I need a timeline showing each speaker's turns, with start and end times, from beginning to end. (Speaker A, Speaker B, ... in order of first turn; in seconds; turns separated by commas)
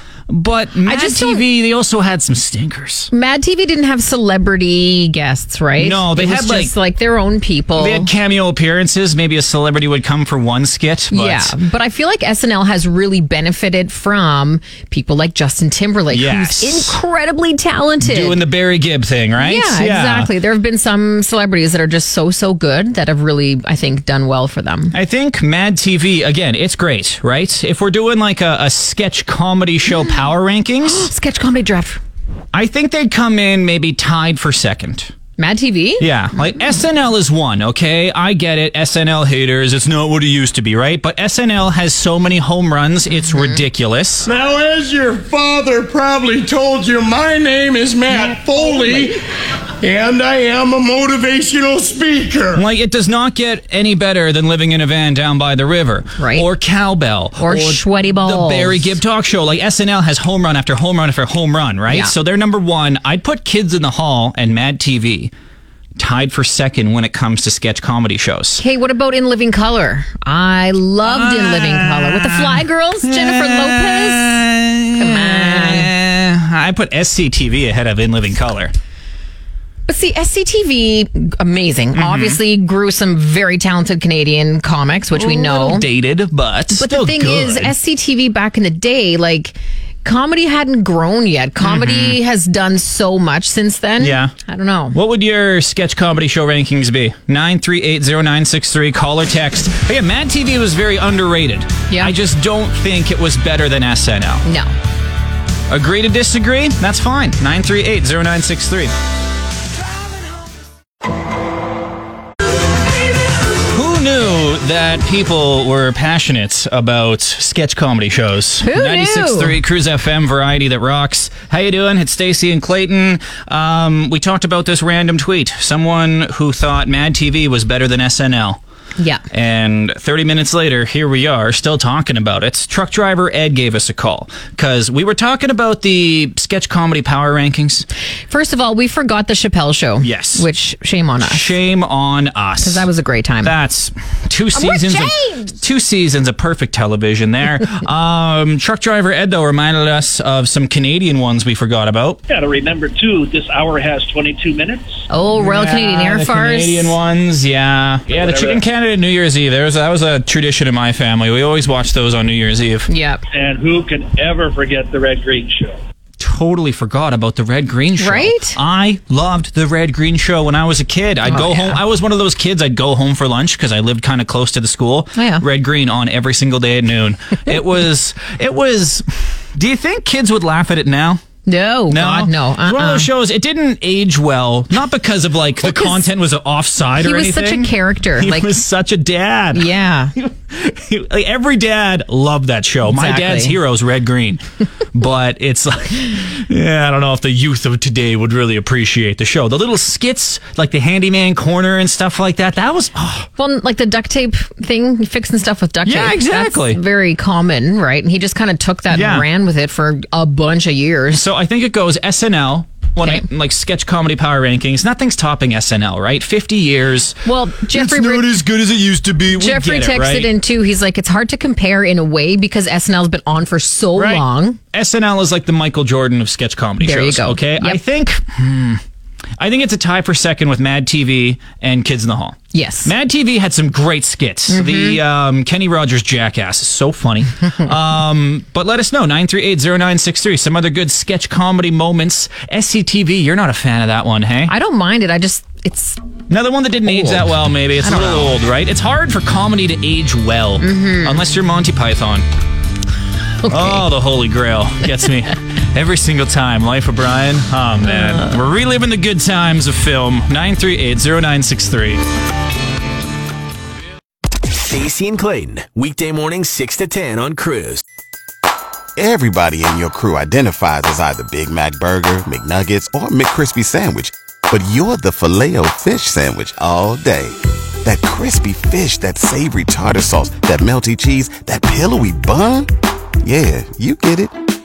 Speaker A: 0.3-3.1, Speaker B: 0.8-1.4, Speaker B: 3.1-8.1, Speaker A: 5.8-6.7, Speaker A: 7.8-11.6, Speaker B: 11.1-18.4, Speaker A: 16.1-17.0, Speaker A: 18.0-20.3, Speaker B: 19.4-24.9, Speaker A: 24.9-31.1, Speaker B: 30.8-32.0, Speaker A: 32.5-35.1, Speaker B: 35.4-36.1, Speaker A: 36.0-44.3, Speaker C: 44.3-49.2, Speaker B: 48.1-48.8, Speaker C: 49.8-52.6, Speaker A: 52.5-65.3, Speaker B: 56.2-56.5, Speaker B: 57.4-58.9, Speaker B: 61.9-62.1, Speaker A: 66.0-68.6, Speaker B: 68.6-74.4, Speaker A: 71.0-78.7, Speaker B: 75.0-75.9, Speaker B: 79.9-85.9, Speaker A: 82.0-82.4, Speaker A: 85.1-87.8, Speaker B: 86.7-95.0, Speaker A: 91.6-92.2, Speaker A: 94.0-94.3, Speaker A: 94.9-104.4, Speaker B: 101.9-102.2, Speaker B: 104.5-104.7, Speaker A: 105.7-108.9, Speaker A: 113.7-128.6, Speaker B: 118.6-119.6, Speaker B: 129.0-129.2, Speaker A: 129.3-137.9, Speaker B: 138.3-141.5, Speaker A: 140.0-140.5, Speaker A: 141.2-142.9, Speaker B: 142.6-143.5, Speaker A: 143.4-152.2, Speaker B: 144.5-145.6, Speaker D: 152.3-155.0, Speaker B: 155.1-157.0, Speaker A: 155.3-162.9, Speaker D: 158.1-158.6, Speaker B: 162.9-163.2, Speaker D: 163.3-165.8, Speaker A: 166.2-181.2, Speaker B: 168.0-168.6, Speaker B: 171.2-171.8, Speaker B: 175.2-175.4, Speaker B: 181.5-183.1, Speaker A: 181.9-194.4, Speaker B: 185.6-186.1, Speaker B: 187.0-188.6, Speaker B: 189.5-190.1, Speaker B: 192.8-193.6, Speaker A: 194.9-203.3, Speaker B: 203.4-211.2, Speaker A: 205.8-206.8, Speaker A: 208.9-209.3, Speaker A: 211.1-220.3, Speaker B: 217.2-218.4, Speaker B: 219.3-224.6, Speaker A: 223.9-228.8, Speaker B: 226.8-227.8, Speaker A: 229.4-244.5, Speaker B: 232.5-232.9, Speaker B: 234.5-235.0, Speaker B: 244.5-246.1, Speaker A: 246.3-252.2, Speaker B: 246.8-248.3, Speaker B: 250.6-251.2, Speaker B: 253.4-253.8, Speaker A: 253.5-262.0, Speaker E: 264.6-267.8, Speaker F: 269.0-282.7, Speaker F: 283.2-284.4